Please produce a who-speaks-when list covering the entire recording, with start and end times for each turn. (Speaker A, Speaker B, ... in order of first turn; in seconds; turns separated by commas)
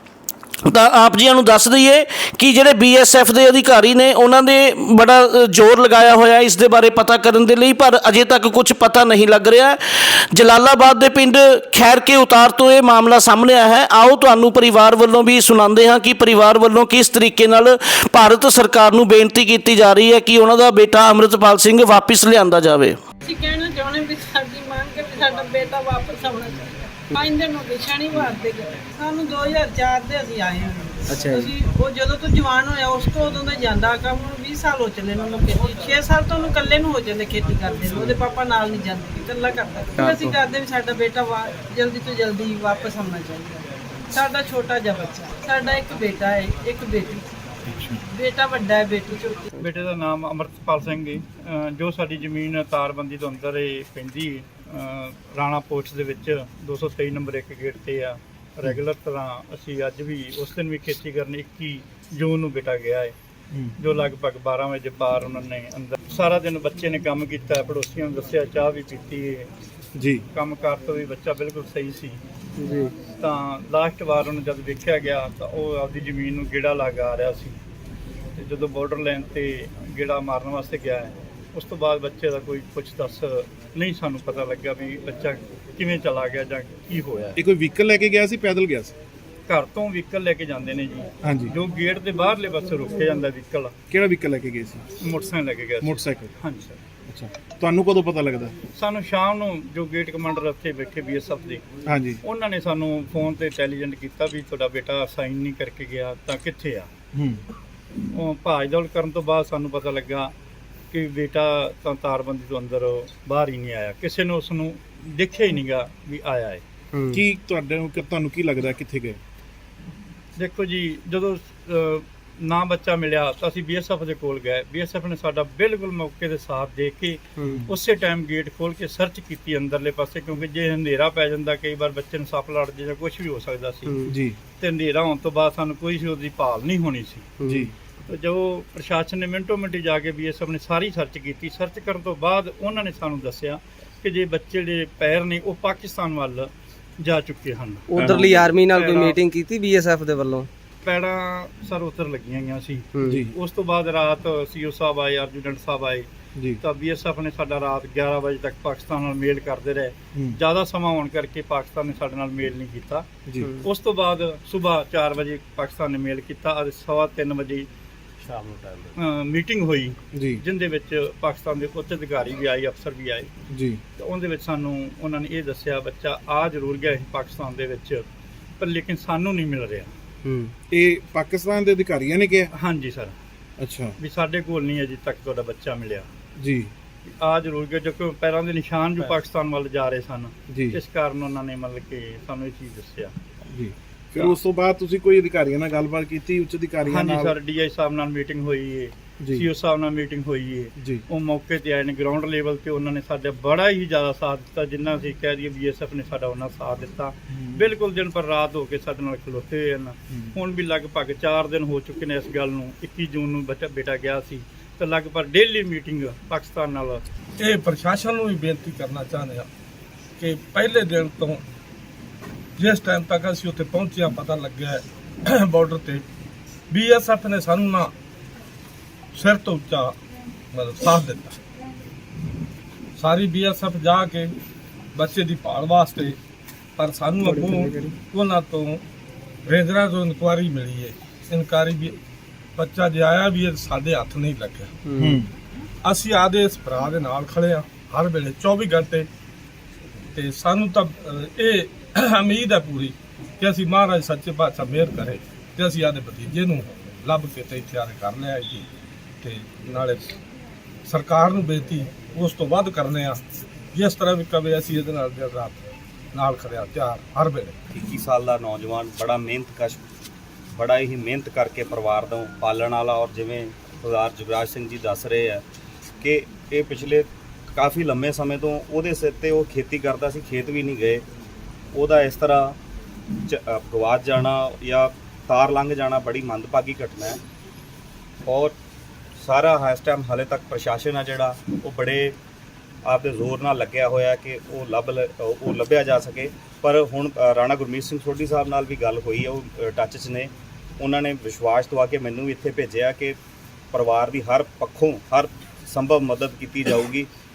Speaker A: 0.7-9.8, Speaker A: 10.3-23.0, Speaker B: 23.2-47.3, Speaker C: 31.1-31.5, Speaker C: 40.0-40.4, Speaker B: 48.0-49.5, Speaker D: 49.6-63.1, Speaker D: 63.8-69.5, Speaker E: 70.0-70.2, Speaker D: 70.3-72.2, Speaker C: 72.6-72.9, Speaker D: 73.1-77.6, Speaker D: 78.4-87.4, Speaker E: 87.4-89.0, Speaker D: 89.5-93.7, Speaker E: 91.2-91.5, Speaker E: 93.9-94.8, Speaker D: 95.0-96.7, Speaker E: 95.8-96.3, Speaker E: 97.1-98.5, Speaker D: 98.8-101.6, Speaker E: 101.9-102.2, Speaker D: 102.2-106.9, Speaker E: 107.1-107.4, Speaker D: 108.1-110.3, Speaker D: 110.9-116.6, Speaker C: 116.9-117.2, Speaker E: 117.1-119.2, Speaker D: 120.4-134.0, Speaker E: 127.5-127.7, Speaker C: 133.9-134.2, Speaker E: 134.1-134.4, Speaker D: 134.6-137.3, Speaker C: 137.4-137.7, Speaker E: 137.5-137.7, Speaker D: 138.1-149.2, Speaker C: 147.9-150.5, Speaker E: 148.0-148.3, Speaker D: 150.8-156.1, Speaker C: 152.9-153.2, Speaker E: 153.1-153.3, Speaker E: 156.4-156.6, Speaker D: 156.6-163.1, Speaker D: 163.6-167.7, Speaker D: 168.2-173.3, Speaker E: 170.2-170.4, Speaker E: 173.5-173.8, Speaker D: 174.0-178.1, Speaker D: 178.6-179.9, Speaker C: 180.3-180.5, Speaker E: 180.7-182.5, Speaker D: 182.5-183.2, Speaker E: 183.6-184.0, Speaker D: 184.0-186.1, Speaker E: 186.4-186.7, Speaker D: 187.1-193.1, Speaker E: 190.5-190.8, Speaker E: 193.5-197.3, Speaker D: 196.9-217.0, Speaker E: 199.2-199.5, Speaker E: 207.3-207.7, Speaker F: 217.4-219.5, Speaker F: 220.2-221.4, Speaker F: 222.6-226.1, Speaker F: 226.7-227.9, Speaker F: 229.1-230.0, Speaker F: 230.5-231.4, Speaker F: 233.0-234.3, Speaker F: 234.9-236.2, Speaker F: 236.8-238.8, Speaker C: 237.2-237.9, Speaker F: 239.5-242.0, Speaker F: 242.6-244.7, Speaker C: 244.9-245.2, Speaker E: 245.0-245.3, Speaker F: 245.8-249.1, Speaker F: 250.1-258.7, Speaker F: 259.2-260.2, Speaker F: 260.9-263.2, Speaker F: 263.7-267.6, Speaker G: 267.7-269.8, Speaker G: 270.6-275.4, Speaker G: 276.0-281.1, Speaker G: 281.7-282.6, Speaker G: 283.2-287.2, Speaker G: 288.3-288.6, Speaker G: 289.2-292.2, Speaker G: 292.9-303.2, Speaker G: 303.7-307.1